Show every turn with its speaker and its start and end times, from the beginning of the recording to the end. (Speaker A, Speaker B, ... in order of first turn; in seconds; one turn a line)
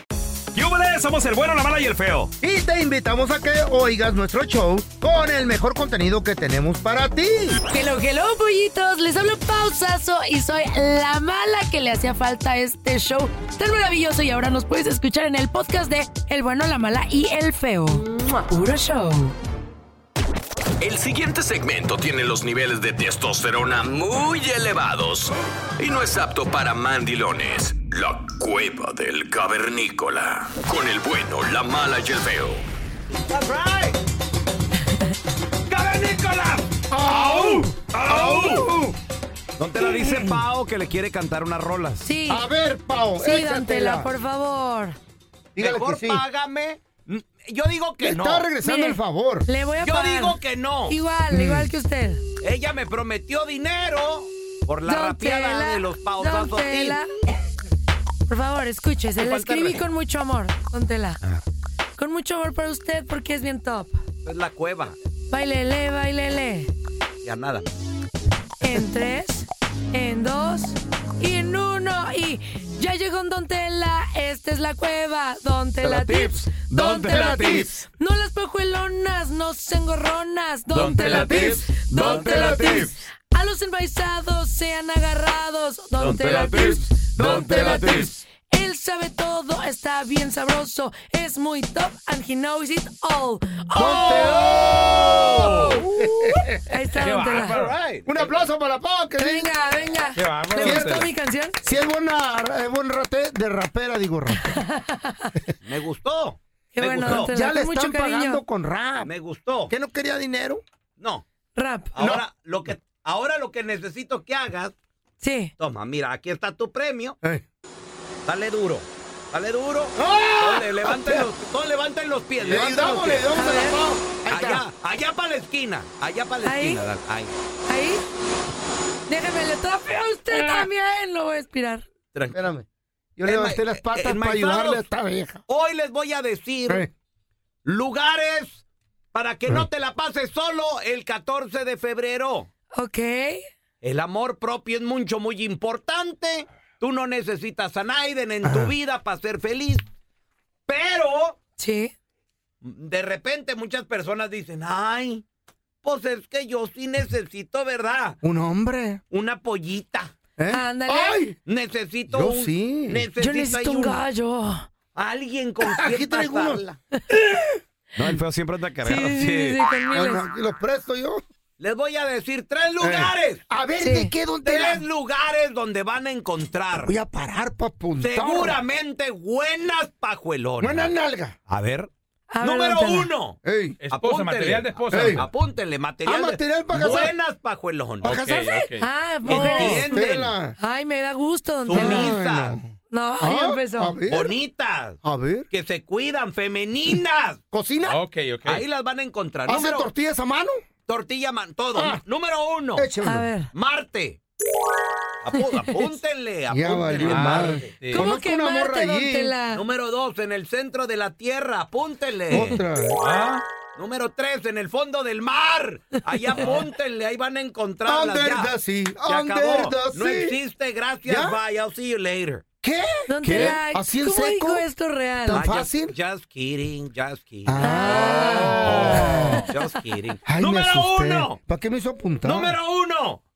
Speaker A: 0.5-2.3
Speaker B: 2.4-7.6
Speaker C: 7.7-19.3
Speaker D: 20.8-32.6
Speaker A: 33.3-34.0
Speaker A: 35.7-38.7
Speaker B: 36.9-39.0
Speaker A: 39.6-42.0
Speaker B: 39.8-40.4
Speaker C: 42.0-42.4
Speaker B: 42.3-44.1
Speaker C: 43.2-45.0
Speaker B: 45.5-46.2
Speaker A: 45.6-48.5
Speaker B: 48.0-49.5
Speaker C: 48.6-50.4
Speaker A: 49.8-51.0
Speaker C: 50.9-52.2
Speaker B: 51.3-51.7
Speaker A: 52.4-57.0
Speaker C: 54.9-57.1
Speaker C: 58.3-61.2
Speaker A: 59.2-59.8
Speaker C: 62.0-64.0
Speaker A: 64.2-65.0
Speaker C: 65.3-66.7
Speaker A: 67.2-67.7
Speaker C: 68.6-94.2
Speaker E: 75.8-76.3
Speaker A: 75.9-77.7
Speaker E: 77.0-77.5
Speaker B: 77.1-77.7
Speaker E: 80.7-82.9
Speaker B: 81.1-82.9
Speaker A: 81.1-82.9
Speaker E: 86.0-88.0
Speaker B: 87.2-88.2
Speaker B: 93.7-96.3
Speaker A: 93.8-95.8
Speaker E: 95.3-95.8
Speaker C: 96.7-97.6
Speaker E: 97.0-97.8
Speaker A: 97.0-98.3
Speaker B: 98.0-99.5
Speaker C: 99.2-101.6
Speaker E: 100.2-101.0
Speaker B: 100.6-101.1
Speaker B: 101.6-104.6
Speaker C: 104.3-105.3
Speaker A: 105.6-107.3
Speaker C: 106.7-108.4
Speaker B: 107.0-109.1
Speaker A: 109.0-109.7
Speaker B: 109.7-110.6
Speaker A: 111.0-111.2
Speaker C: 111.5-111.9
Speaker A: 111.9-114.7
Speaker B: 112.0-112.2
Speaker C: 115.2-115.5
Speaker A: 115.6-117.2
Speaker A: 118.2-123.3
Speaker B: 120.0-121.3
Speaker B: 122.4-124.6
Speaker C: 123.3-123.8
Speaker A: 124.3-127.3
Speaker C: 126.4-126.8
Speaker C: 127.7-128.0
Speaker C: 129.1-131.8
Speaker B: 132.3-132.6
Speaker B: 133.2-135.4
Speaker A: 133.2-134.9
Speaker A: 135.5-136.8
Speaker A: 137.6-142.5
Speaker C: 142.7-143.4
Speaker A: 143.8-149.8
Speaker B: 148.4-148.7
Speaker A: 150.7-151.4
Speaker C: 151.6-151.9
Speaker A: 152.6-155.2
Speaker A: 155.8-158.2
Speaker B: 158.2-159.0
Speaker A: 159.1-160.1
Speaker B: 160.4-161.4
Speaker C: 160.5-161.2
Speaker A: 161.4-164.0
Speaker B: 162.1-163.0
Speaker C: 163.2-164.7
Speaker A: 164.9-166.8
Speaker B: 165.6-166.6
Speaker B: 167.2-167.5
Speaker A: 167.9-169.6
Speaker C: 168.8-170.2
Speaker B: 169.9-171.2
Speaker A: 171.6-173.4
Speaker B: 172.8-174.8
Speaker C: 173.8-174.1
Speaker A: 174.4-176.9
Speaker B: 176.7-178.6
Speaker A: 178.0-180.9
Speaker B: 180.6-181.3
Speaker A: 181.5-181.9
Speaker C: 182.3-183.1
Speaker A: 182.4-183.4
Speaker B: 183.4-183.8
Speaker E: 183.8-185.2
Speaker A: 183.9-188.2
Speaker B: 184.9-185.3
Speaker B: 186.1-187.1
Speaker E: 188.0-188.8
Speaker B: 188.0-188.6
Speaker C: 188.8-190.0
Speaker B: 189.2-190.6
Speaker A: 189.3-190.3
Speaker C: 190.6-192.1
Speaker A: 191.7-192.6
Speaker B: 191.7-192.7
Speaker C: 192.9-194.0
Speaker B: 193.2-194.3
Speaker A: 194.1-195.0
Speaker B: 195.0-195.4
Speaker A: 195.5-197.4
Speaker B: 197.5-198.0
Speaker E: 197.8-198.6
Speaker A: 198.4-199.9
Speaker B: 199.5-200.6
Speaker A: 200.9-202.9
Speaker B: 201.7-202.0
Speaker B: 202.8-203.3
Speaker C: 203.0-203.5
Speaker A: 203.5-204.2
Speaker A: 205.2-207.7
Speaker B: 206.5-209.3
Speaker E: 207.0-208.1
Speaker C: 207.9-209.6
Speaker A: 209.5-212.6
Speaker B: 212.3-213.0
Speaker E: 212.9-213.4
Speaker A: 213.8-218.5
Speaker B: 217.8-220.3
Speaker A: 219.1-222.4
Speaker B: 221.0-221.4
Speaker B: 222.6-224.6
Speaker C: 223.1-225.4
Speaker B: 225.2-225.9
Speaker A: 225.3-231.4
Speaker B: 227.4-229.4
Speaker C: 227.6-228.7
Speaker E: 228.8-229.3
Speaker B: 230.2-232.6
Speaker A: 232.2-233.2